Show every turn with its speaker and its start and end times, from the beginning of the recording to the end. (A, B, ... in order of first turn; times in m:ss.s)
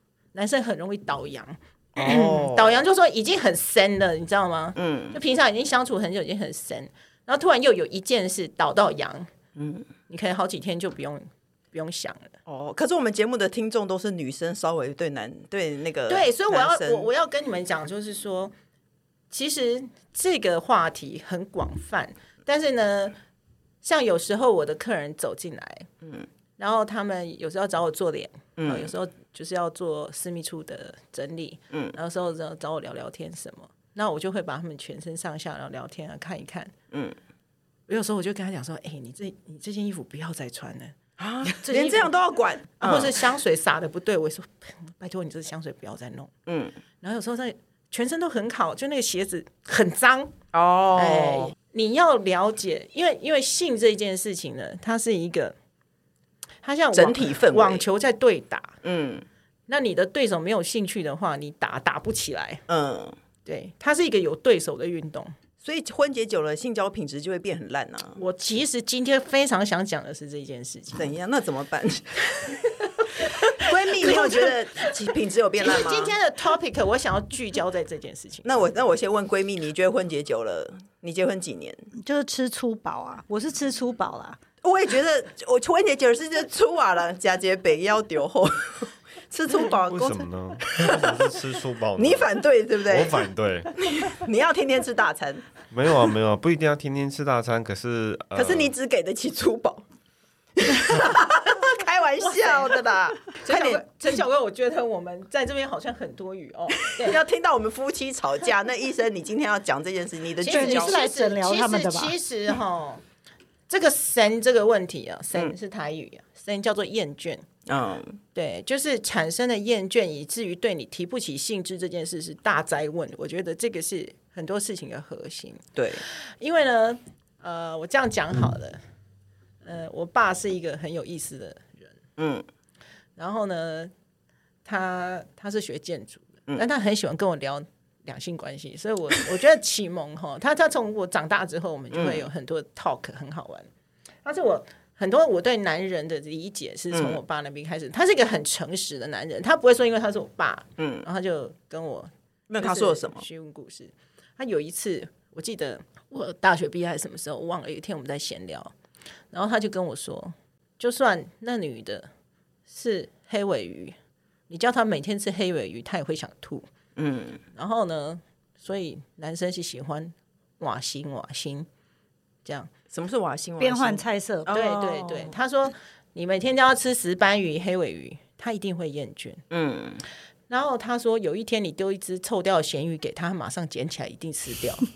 0:00.3-0:09.3 A
0:02.0-0:02.8 B
0:04.8-0:05.2 B
0:09.6-0:09.8 B
0:10.1-0:12.3 A
0:12.4-0:17.1 B
0:16.1-0:18.5 A
0:19.3-0:23.1 A
0:23.8-0:25.9 A
0:26.6-0:36.7 A
0:28.6-0:28.9 B
0:36.9-0:37.2 B
0:37.9-0:40.9 A
0:41.2-0:43.2 B
0:41.5-0:42.1 A
0:42.8-0:46.3 A
0:46.5-0:46.8 B
0:47.0-0:50.3 A
0:50.5-0:51.5 B
0:51.0-0:55.5 A
0:56.6-0:58.8 A
0:56.9-0:57.8 B
0:58.8-0:59.2 B
0:59.7-1:02.6 A
1:02.7-1:03.2 B
1:03.4-1:05.3 A
1:05.6-1:08.2 B
1:08.2-1:11.0 A
1:11.0-1:12.5 B
1:13.5-1:16.1 B
1:14.0-1:14.5 A
1:15.6-1:18.4 A
1:18.4-1:21.9 B
1:21.9-1:24.4 C
1:24.6-1:31.1 B
1:29.8-1:33.8 D
1:32.0-1:33.2 B
1:33.8-1:35.4 B
1:35.7-1:38.7 D
1:38.3-1:39.8 B
1:40.6-1:43.8 B
1:42.2-1:42.8 A
1:43.3-1:47.2 A
1:46.8-1:51.0 B
1:50.4-1:53.0 A
1:50.4-1:52.2 C
1:53.7-1:57.4 A
1:57.7-1:58.2 B
1:58.3-2:08.8 A
2:05.8-2:06.0 B
2:09.6-2:11.9 A
2:12.2-2:12.4 B
2:13.2-2:13.9 A
2:14.6-2:23.7 A
2:21.9-2:22.2 B
2:24.2-2:38.7 A
2:26.9-2:27.2 B
2:30.8-2:31.0 B
2:32.5-2:33.2 B
2:39.3-2:42.1 A
2:42.7-2:43.9 A
2:44.5-2:46.7 A
2:47.0-2:47.4 B
2:47.5-2:51.7 A
2:52.4-2:52.7 A
2:52.9-2:55.3 B
2:53.6-2:55.1 C
2:54.5-2:59.4 A
2:59.5-3:00.0 B
3:00.5-3:04.9 A